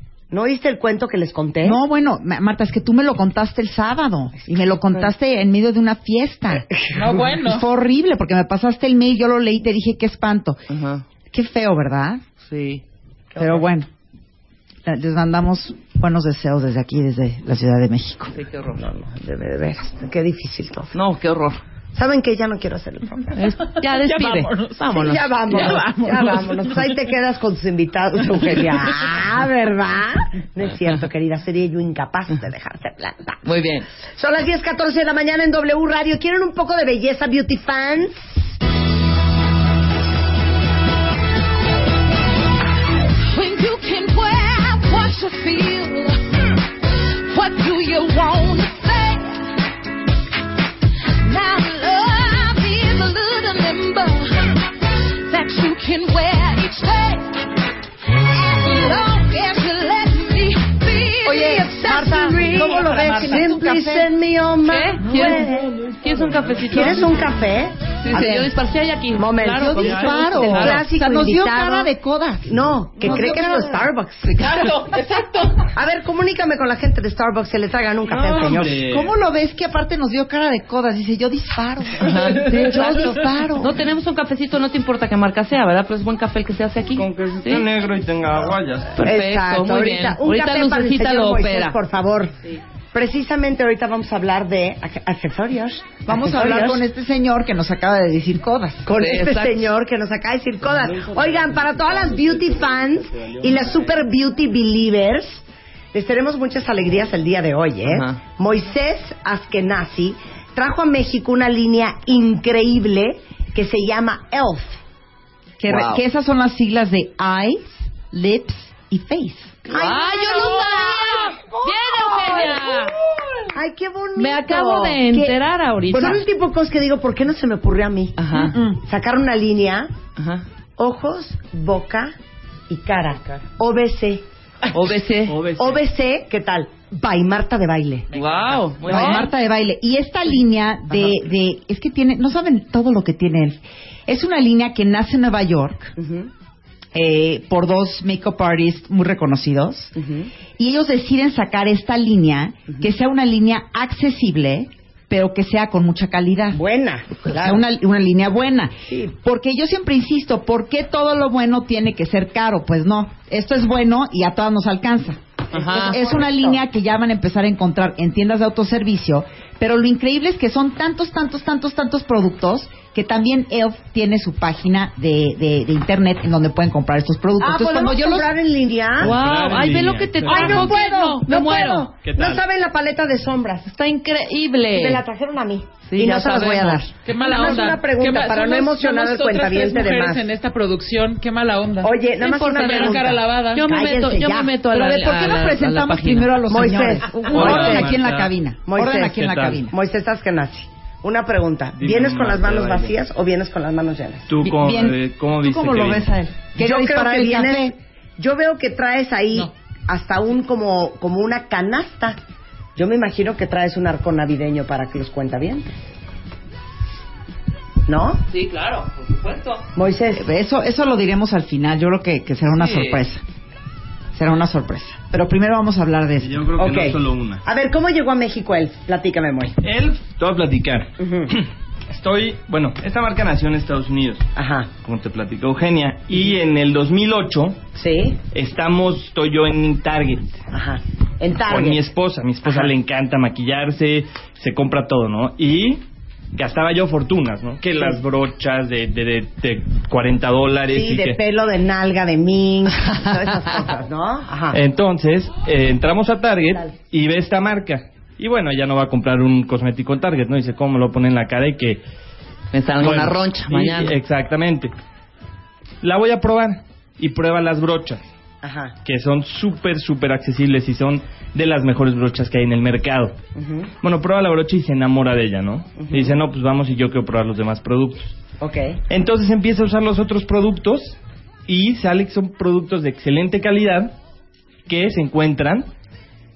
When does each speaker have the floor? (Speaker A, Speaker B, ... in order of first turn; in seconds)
Speaker A: 0.3-1.8, 4.5-5.1, 6.8-7.2, 13.3-13.7, 18.8-20.9, 21.9-23.4, 25.0-33.4, 34.2-38.5, 61.3-65.7, 66.7-67.8, 69.2-71.9, 72.5-74.7, 75.7-78.8, 82.5-83.7, 89.0-92.3, 92.9-96.8, 98.8-114.8, 119.7-122.8, 123.5-125.4, 125.9-128.2, 128.8-129.9, 130.8-132.1, 132.7-134.2, 135.5-138.1, 146.0-146.3, 150.0-150.3, 156.5-157.6, 158.9-159.1, 165.5-166.6, 177.4-179.1, 180.3-183.7, 184.7-190.3, 191.8-194.5, 196.5-197.9, 198.7-199.2, 199.7-204.3, 206.6-212.2, 212.8-215.7, 217.9-218.2, 219.8-220.2, 226.6-229.6, 231.0-231.3, 234.4-234.7, 237.8-238.2, 240.5-241.9, 242.4-242.7, 250.7-254.6, 268.4-268.8, 273.4-273.7, 275.8-276.1, 278.4-278.8
Speaker B: 1.6-6.7, 7.4-10.6, 11.3-12.2, 13.4-13.9, 14.9-18.3, 61.3-64.1, 68.1-68.5, 69.5-73.9, 78.9-82.2, 82.7-83.6, 96.1-98.9, 115.6-119.6, 128.3-128.8, 138.9-145.9, 146.9-149.9, 150.6-156.6, 157.2-178.3, 194.7-199.7, 204.4-207.8, 220.2-223.2, 224.1-226.4
Speaker C: 6.9-7.7, 23.8-26.9, 62.3-63.5, 65.0-66.8, 74.3-75.7, 138.1-139.2, 180.3-180.6, 187.0-192.0, 192.5-193.7
Speaker D: 10.7-11.0, 12.4-12.8, 18.3-18.9, 20.9-21.6, 23.4-25.9, 33.4-33.9, 64.6-65.5, 66.0-67.2, 68.0-70.9, 82.0-87.7, 89.0-91.8, 99.0-99.7, 107.8-108.2, 115.7-116.0, 119.7-123.0, 124.2-126.2, 128.2-128.6, 130.2-130.4, 134.7-135.4, 138.1-139.3, 165.5-166.0, 179.0-181.9, 183.7-185.0, 185.9-186.9, 192.2-196.5, 218.3-219.7, 222.5-223.0, 262.5-263.9
Speaker E: 43.3-46.2, 47.2-49.5, 51.2-57.4, 58.3-62.4
Speaker F: 78.1-79.1, 87.0-89.0, 100.9-103.9, 135.3-135.8, 179.0-180.5, 182.0-182.4, 197.3-198.3, 199.1-199.6, 201.8-202.9, 204.3-206.1, 226.2-227.4, 229.6-234.2, 234.8-237.6, 238.3-240.3, 241.5-245.8, 246.3-251.2, 254.5-261.8, 262.8-264.7, 265.8-268.0, 268.9-273.2, 273.8-278.2, 278.9-283.9, 284.7-285.7